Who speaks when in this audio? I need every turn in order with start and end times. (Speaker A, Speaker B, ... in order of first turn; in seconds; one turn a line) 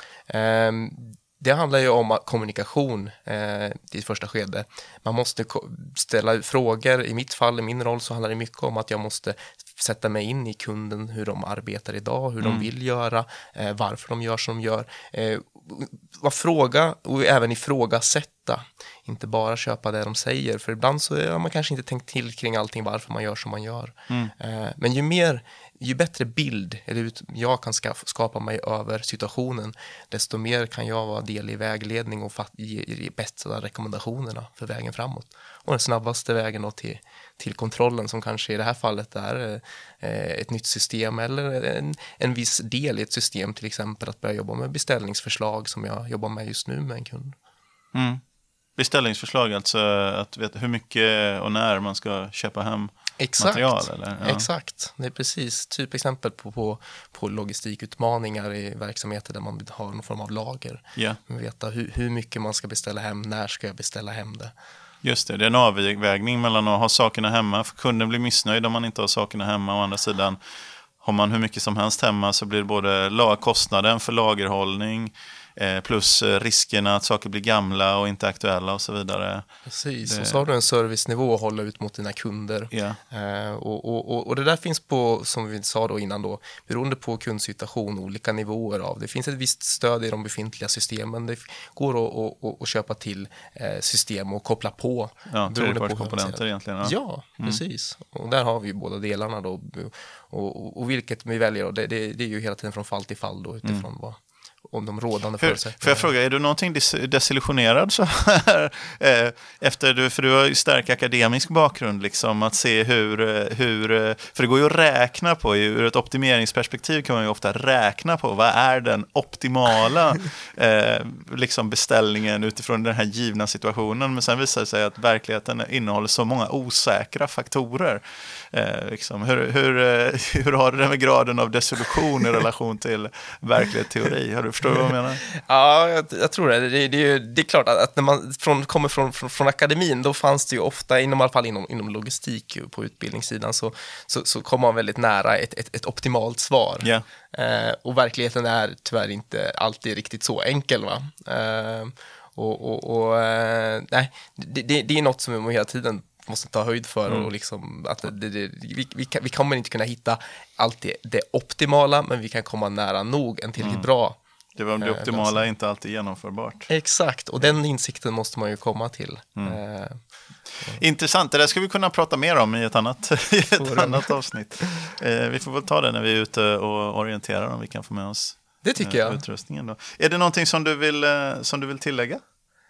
Speaker A: 0.3-47.4
Speaker B: 12.4-12.7
Speaker B: 47.9-48.2
Speaker B: 48.8-54.5
Speaker A: 53.2-64.5
Speaker B: 65.0-70.4
Speaker B: 71.0-79.5
Speaker A: 79.7-106.1
Speaker B: 80.0-80.4
Speaker B: 82.7-83.0
Speaker B: 95.3-97.6
Speaker B: 105.4-135.2
Speaker A: 135.3-164.2
Speaker B: 163.6-163.9
Speaker B: 164.6-166.7
Speaker A: 164.8-165.5
Speaker A: 166.7-170.0
Speaker B: 170.7-182.2
Speaker A: 173.6-174.9
Speaker A: 178.6-179.2